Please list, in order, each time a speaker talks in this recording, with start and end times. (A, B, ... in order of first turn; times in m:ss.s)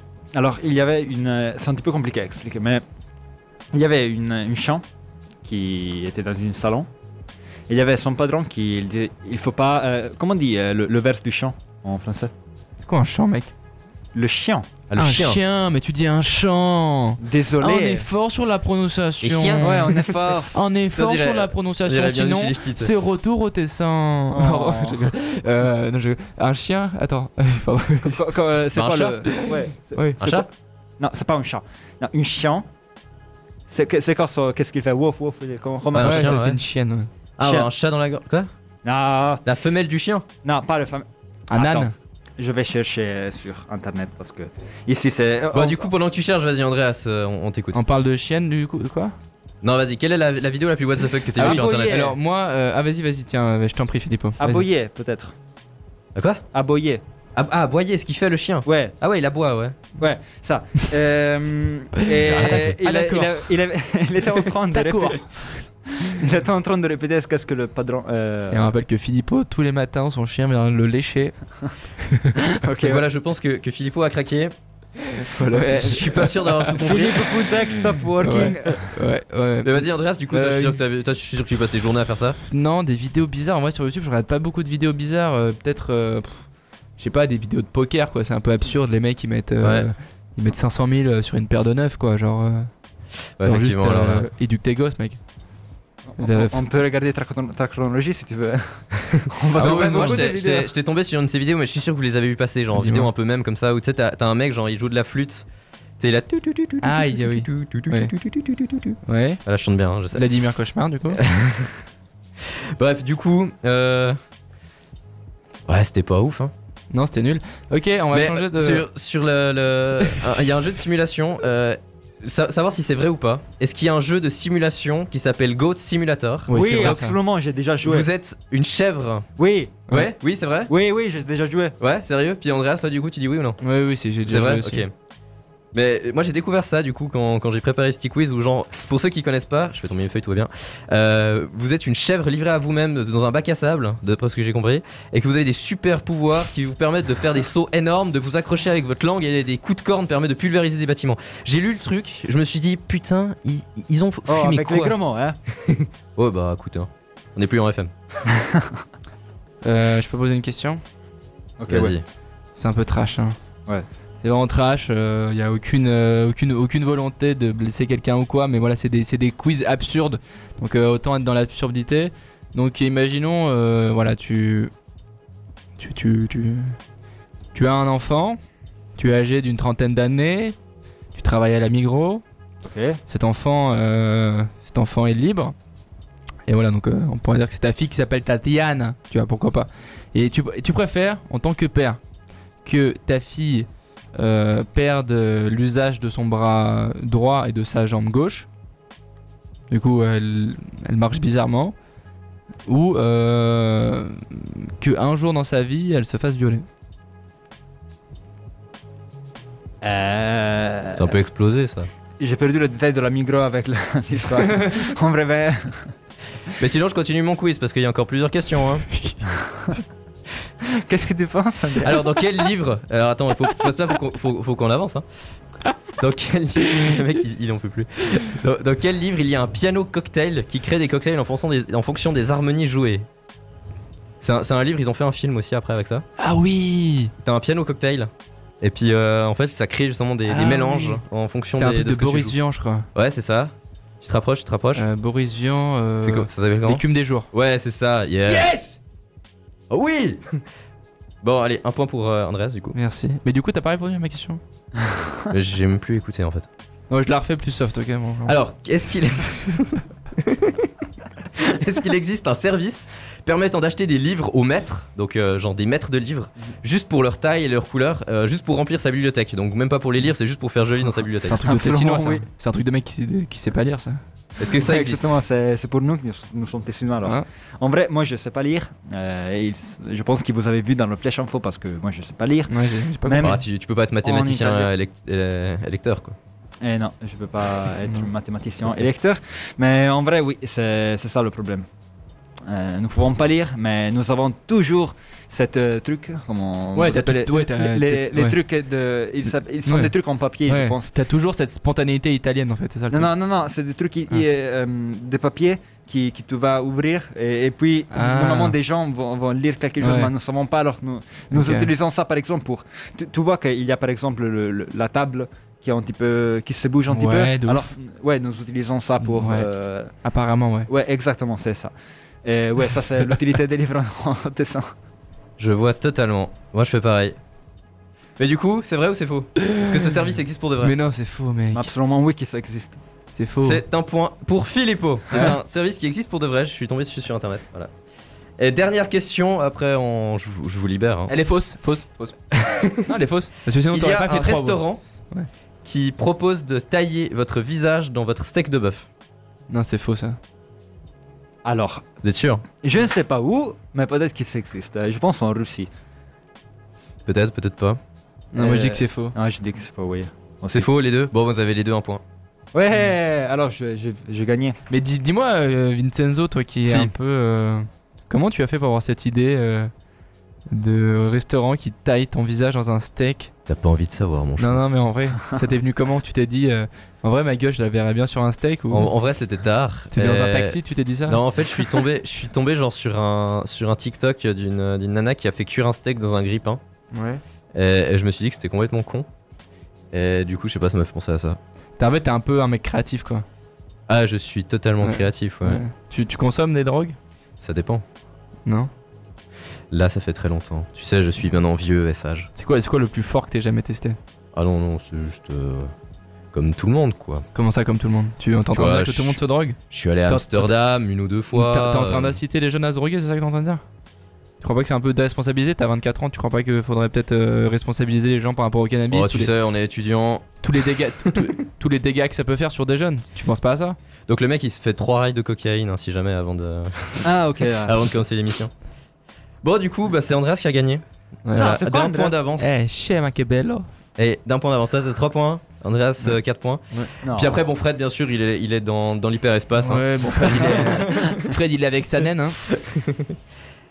0:00.3-0:02.8 A
0:03.7-0:04.8 A
0:05.4-0:06.9 A
0:07.7-0:12.3 A
0:12.8-0:13.5 B
0:14.1-0:14.7 A
0:14.9-0:15.4 C
0:15.0-0:28.2 B
0:17.2-0:18.0 A
0:19.2-0:20.3 C
0:19.6-0:20.5 A
0:20.9-0:22.9 C
0:24.3-0:25.0 A
0:28.0-0:30.5 A
0:28.7-0:29.2 C
0:29.2-0:30.2 B
0:30.2-0:30.5 C
0:31.0-0:32.6 A
0:33.7-0:36.4 A
0:35.9-0:36.6 C
0:36.0-0:37.1 B
0:37.4-0:38.5 C
0:37.4-0:37.7 A
0:38.8-0:39.4 A
0:39.4-0:40.3 C
0:40.4-0:45.9 A
0:41.5-0:41.9 B
0:45.5-0:47.8 C
0:47.7-0:49.1 B
0:49.6-0:52.1 C
0:51.4-0:52.2 A
0:51.4-0:54.6 B
0:54.4-0:55.3 A
0:56.1-0:56.4 C
0:56.5-0:57.0 A
0:57.4-0:59.8 C
0:58.6-0:58.9 A
1:00.0-1:08.7 A
1:02.2-1:03.5 B
1:02.3-1:02.7 C
1:04.7-1:05.6 B
1:08.5-1:11.4 B
1:12.0-1:12.5 B
1:12.4-1:13.0 A
1:12.8-1:14.5 C
1:15.1-1:17.1 B
1:15.5-1:17.4 C
1:16.7-1:18.9 A
1:18.2-1:20.8 B
1:19.6-1:22.4 C
1:22.5-1:32.7 B
1:29.6-1:29.8 C
1:33.4-1:34.3 C
1:33.4-1:35.2 B
1:36.1-1:40.7 A
1:36.2-1:36.6 B
1:39.5-1:45.4 C
1:39.6-1:40.2 B
1:42.8-1:43.1 B
1:46.0-1:50.3 C
1:46.8-1:48.1 B
1:49.0-1:49.4 B
1:50.1-1:51.2 B
1:51.1-1:51.8 C
1:52.4-1:54.2 C
1:55.7-1:56.5 C
1:56.9-1:58.8 B
1:58.1-2:06.6 C
2:06.5-2:07.2 B
2:06.5-2:08.1 A
2:07.8-2:09.3 C
2:09.4-2:10.0 A
2:09.9-2:10.7 C
2:10.7-2:11.8 A
2:11.8-2:13.6 C
2:13.6-2:14.8 B
2:14.2-2:14.9 C
2:15.7-2:35.0 C
2:34.3-2:35.4 A
2:35.5-2:37.9 C
2:38.3-2:38.8 A
2:39.6-2:40.8 B
2:41.6-2:41.9 A
2:41.7-2:42.0 C
2:42.6-2:43.4 B
2:44.2-2:54.7 B
2:55.8-2:56.8 B
2:57.5-2:58.4 B
2:59.0-3:00.6 B
3:01.1-3:02.2 B
3:02.6-3:03.0 A
3:03.1-3:05.5 B
3:06.5-3:12.0 B
3:12.6-3:18.5 B
3:19.7-3:21.7 B
3:22.6-3:26.6 B
3:29.8-3:31.1 A
3:31.0-3:31.9 C
3:32.2-3:35.9 A
3:36.6-3:38.8 C
3:38.9-3:39.2 B
3:40.6-3:42.0 A
3:41.8-3:45.0 C
3:46.0-3:53.0 C
3:54.2-3:56.0 C
3:56.2-3:57.1 B
3:57.2-3:58.1 C
3:58.6-4:02.4 C
4:00.2-4:01.0 B
4:01.5-4:02.9 B
4:02.9-4:04.8 C
4:04.7-4:07.3 B
4:06.0-4:08.5 C
4:08.3-4:08.8 B
4:09.7-4:10.4 C
4:11.2-4:12.8 C
4:12.7-4:14.4 B
4:15.3-4:16.5 C
4:16.9-4:18.3 B
4:18.2-4:20.7 C
4:21.3-4:31.4 C
4:31.2-4:34.0 B
4:31.4-4:32.2 A
4:34.4-4:35.1 C
4:34.5-4:43.4 A
4:42.5-4:43.4 B
4:43.2-4:46.2 C
4:44.0-4:44.7 A
4:46.6-4:51.6 A
4:52.4-5:00.9 A
4:56.8-4:58.4 B
4:59.6-4:59.9 B
5:00.5-5:03.1 B
5:02.9-5:19.9 A
5:07.9-5:08.6 B
5:09.8-5:10.1 B
5:11.3-5:11.7 B
5:16.9-5:17.7 B
5:19.0-5:19.4 B
5:20.0-5:20.7 B
5:20.7-5:21.7 A
5:22.2-5:24.7 A
5:25.4-5:27.2 C
5:28.2-5:30.7 C
5:29.4-5:29.9 B
5:30.6-5:31.7 B
5:31.5-5:32.8 A
5:33.1-5:33.6 B
5:33.4-5:37.7 C
5:35.1-5:35.4 B
5:38.4-5:41.1 C
5:41.1-5:45.3 B
5:42.3-5:42.9 C
5:43.7-5:44.8 C
5:45.6-5:48.9 C
5:49.5-5:50.2 B
5:51.4-5:51.8 A
5:52.0-5:52.4 C
5:52.6-5:55.7 A
5:57.1-5:57.8 C
5:58.3-5:59.1 B
5:58.4-6:00.7 A
6:00.5-6:02.0 C
6:02.5-6:04.6 A
6:04.7-6:09.7 B
6:06.6-6:06.9 C
6:10.5-6:13.3 B
6:13.4-6:14.6 C
6:14.4-6:18.9 B
6:18.7-6:26.6 C
6:19.9-6:21.8 B
6:26.9-6:27.2 B
6:27.5-6:29.1 C
6:29.9-6:31.4 C
6:31.8-6:33.2 B
6:33.9-6:35.6 C
6:34.8-6:37.0 B
6:37.4-6:37.8 C
6:39.7-6:42.3 C
6:42.4-6:44.0 B
6:44.3-6:45.7 C
6:46.3-6:47.2 C
6:47.3-6:50.5 B
6:48.5-6:52.2 C
6:51.3-6:53.6 B
6:54.4-6:59.3 B
6:58.9-7:00.3 C
7:00.4-7:03.8 B
7:04.1-7:08.5 C
7:07.0-7:07.8 A
7:09.4-7:12.5 C
7:11.2-7:11.6 B
7:11.3-7:12.2 A
7:12.4-7:13.7 B
7:14.0-7:21.2 C
7:17.0-7:17.4 A
7:19.6-7:22.4 B
7:22.5-7:23.1 C